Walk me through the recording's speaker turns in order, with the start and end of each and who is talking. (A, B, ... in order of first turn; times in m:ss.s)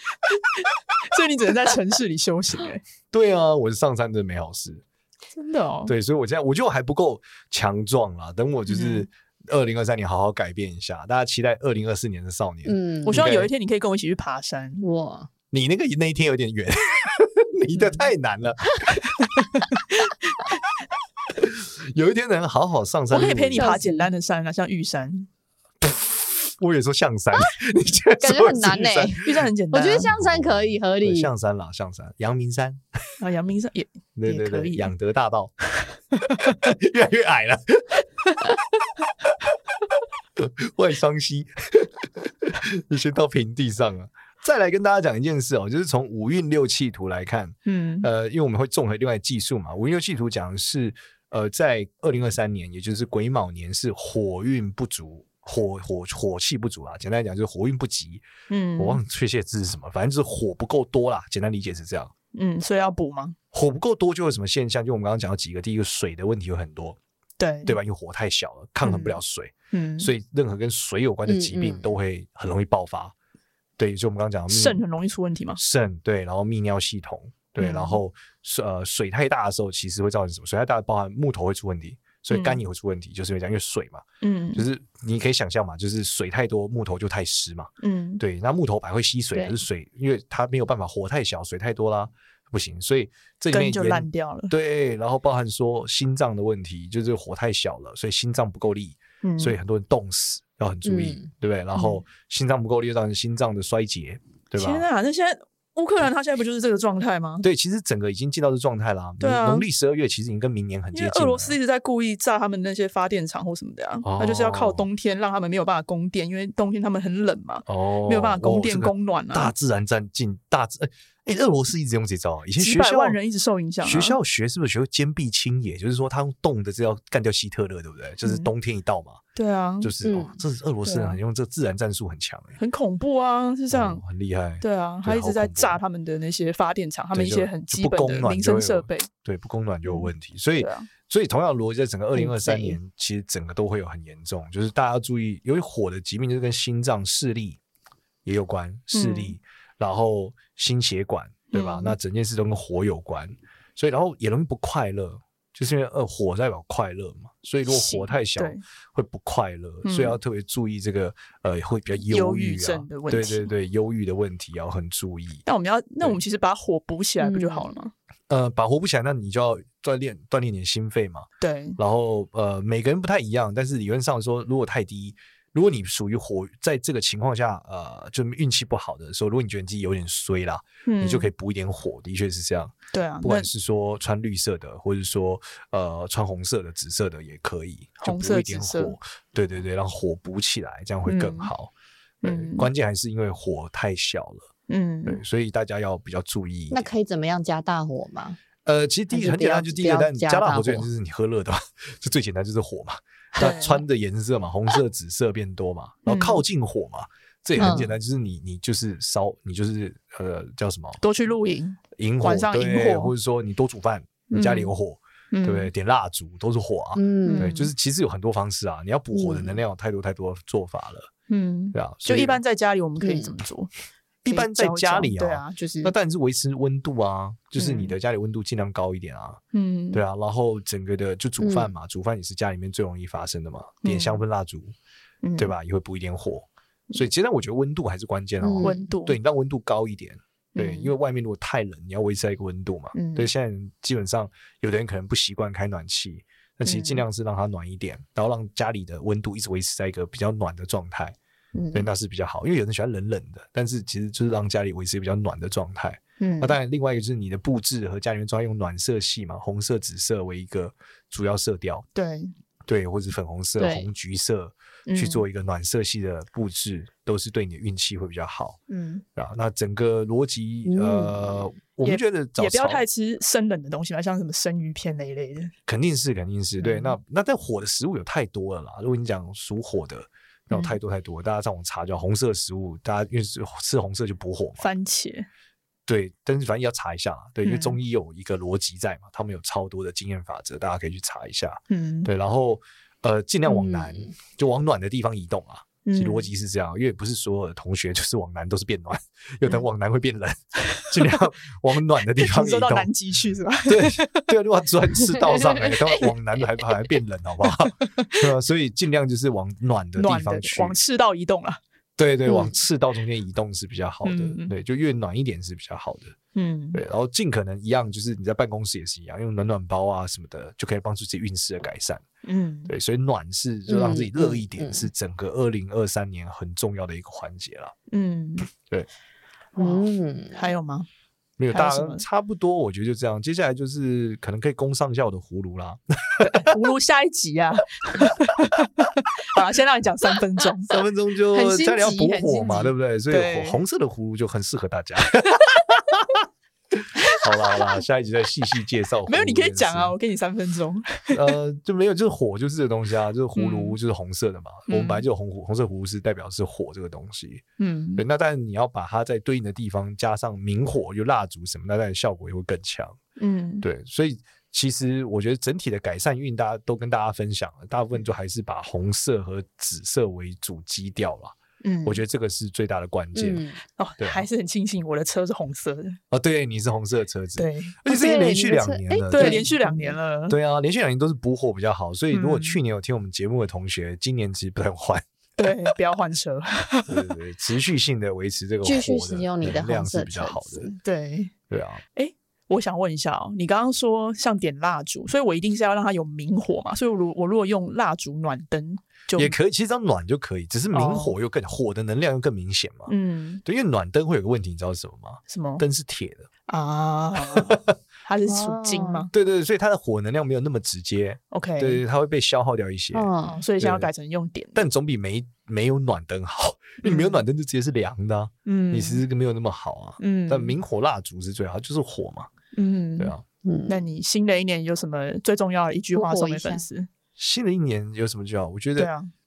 0:00.3-0:02.8 A
0:03.1-0:04.8 B
0:05.3-0:05.9 A
0:05.8-0:13.5 B
0:08.7-0:09.1 A
0:12.6-0:13.2 C
0:13.0-0:14.8 A
0:14.8-0:15.3 C
0:15.5-0:19.0 B
0:17.8-0:18.0 A
0:19.2-0:20.6 A
0:21.4-0:23.7 B
0:23.1-0:25.3 A
0:23.6-0:24.1 C
0:25.8-0:29.4 B
0:28.2-0:31.3 C
0:29.2-0:30.1 A
0:30.1-0:32.8 B
0:33.2-0:34.9 A
0:34.2-0:35.5 B
0:36.2-0:36.6 A
0:36.4-0:38.0 B
0:39.2-0:39.5 B
0:40.4-0:58.2 B
0:47.6-0:48.1 A
0:58.5-0:59.0 A
0:58.8-1:02.1 B
1:02.3-1:03.4 A
1:03.5-1:07.0 B
1:07.4-1:07.8 A
1:07.6-1:13.1 B
1:08.8-1:09.2 A
1:09.7-1:10.1 A
1:11.3-1:11.8 C
1:13.8-1:14.8 B
1:14.5-1:15.6 A
1:15.6-1:24.0 B
1:17.6-1:18.0 A
1:22.3-1:22.6 A
1:24.2-1:24.6 A
1:24.5-1:44.8 B
1:27.8-1:28.2 A
1:33.5-1:34.5 A
1:39.2-1:39.6 A
1:40.8-1:41.3 C
1:41.7-1:42.0 A
1:44.6-1:47.5 A
1:47.4-1:51.6 B
1:49.2-1:49.7 A
1:50.9-1:59.5 A
1:54.0-1:54.9 B
1:57.6-2:03.2 B
2:02.6-2:04.2 A
2:03.8-2:09.2 B
2:08.2-2:08.5 A
2:09.3-2:09.9 A
2:09.8-2:12.6 B
2:10.0-2:10.4 C
2:10.8-2:11.2 A
2:12.6-2:14.0 A
2:13.7-2:15.8 B
2:14.6-2:19.1 A
2:17.1-2:27.6 B
2:20.6-2:20.9 A
2:22.1-2:22.8 C
2:28.2-2:45.4 B
2:28.9-2:29.4 A
2:31.5-2:31.9 A
2:37.6-2:38.6 A
2:39.8-2:40.2 A
2:42.1-2:43.5 A
2:45.4-2:47.9 A
2:47.2-2:47.7 C
2:48.3-2:51.3 B
2:51.4-2:51.8 A
2:51.8-3:11.7 B
3:00.8-3:01.3 A
3:02.9-3:03.5 A
3:08.0-3:09.0 A
3:11.0-3:11.5 A
3:12.2-3:12.7 A
3:12.2-3:14.5 B
3:14.7-3:15.2 A
3:15.0-3:16.9 B
3:16.7-3:18.4 C
3:18.6-3:31.0 B
3:19.1-3:20.9 C
3:23.4-3:23.8 A
3:26.0-3:26.4 A
3:27.6-3:27.9 C
3:27.6-3:27.9 A
3:31.0-3:33.1 A
3:32.0-3:41.1 B
3:34.3-3:34.7 A
3:35.3-3:35.7 A
3:37.0-3:37.5 C
3:37.2-3:37.7 A
3:39.1-3:39.6 C
3:41.3-3:43.7 A
3:41.7-3:42.4 B
3:43.0-3:43.3 C
3:44.2-3:49.4 B
3:44.3-3:45.9 A
3:47.6-3:47.9 A
3:49.5-3:50.0 A
3:49.9-3:54.7 B
3:51.4-3:51.7 C
3:53.8-3:54.2 A
3:55.2-3:55.5 A
3:55.4-4:11.2 B
3:58.4-3:58.8 C
3:58.6-3:59.2 A
4:00.5-4:00.9 A
4:02.9-4:03.3 A
4:06.6-4:07.0 A
4:11.5-4:11.9 A
4:11.7-4:21.8 B
4:16.2-4:16.6 A
4:21.9-4:22.3 A
4:22.6-4:28.6 B
4:23.6-4:23.9 C
4:24.9-4:25.2 A
4:28.7-4:29.0 A
4:29.2-4:32.8 B
4:30.6-4:31.4 C
4:31.8-4:35.5 A
4:35.7-4:44.7 B
4:36.6-4:37.0 A
4:44.6-4:45.3 A
4:45.9-5:02.9 B
4:47.4-4:47.8 A
4:51.7-4:52.1 A
4:53.4-4:54.1 C
4:55.8-4:56.3 A
5:02.2-5:04.3 A
5:03.7-5:10.8 B
5:07.6-5:08.2 A
5:10.0-5:11.6 A
5:12.0-5:16.2 B
5:12.2-5:12.5 C
5:14.0-5:14.5 A
5:16.3-5:16.8 A
5:16.7-5:22.0 B
5:22.2-5:22.7 A
5:22.7-5:27.7 B
5:23.7-5:24.9 C
5:27.9-5:28.5 A
5:29.6-5:30.4 C
5:29.6-5:30.9 A
5:31.4-5:36.5 B
5:31.5-5:32.0 A
5:36.2-5:40.7 A
5:40.7-5:46.0 B
5:41.3-5:42.7 C
5:43.1-5:43.6 A
5:46.7-5:49.9 B
5:47.0-5:47.8 A
5:49.1-5:51.4 A
5:51.1-5:57.4 B
5:53.3-5:53.8 A
5:54.7-5:55.0 A
5:57.6-5:58.0 A
5:58.0-6:03.0 B
6:03.2-6:03.6 A
6:03.6-6:13.4 B
6:11.6-6:12.0 A
6:13.1-6:13.6 C
6:13.8-6:16.0 A
6:14.0-6:14.3 B
6:16.1-6:19.5 B
6:17.4-6:17.8 A
6:17.9-6:20.0 C
6:19.1-6:20.4 A
6:20.3-6:25.7 B
6:22.1-6:22.6 A
6:25.4-6:27.0 A
6:26.9-6:30.7 B
6:28.6-6:30.8 C
6:30.8-6:31.3 A
6:31.5-6:31.8 B
6:31.9-6:39.4 A
6:39.2-6:42.9 B
6:40.7-6:41.1 A
6:42.9-6:43.4 A
6:43.4-6:46.3 B
6:45.3-6:45.6 A
6:46.5-6:49.1 A
6:47.3-6:47.6 B
6:48.3-6:49.0 C
6:49.1-6:53.9 B
6:51.3-6:51.8 A
6:52.9-6:53.4 C
6:53.2-6:54.6 A
6:54.5-7:02.3 B
6:56.8-6:57.2 A
6:58.4-6:59.0 A
7:00.0-7:00.6 A
7:02.5-7:03.1 A
7:03.0-7:03.2 B
7:03.4-7:03.8 C
7:03.7-7:06.9 A
7:06.0-7:06.6 C
7:07.2-7:08.9 B
7:08.8-7:09.1 A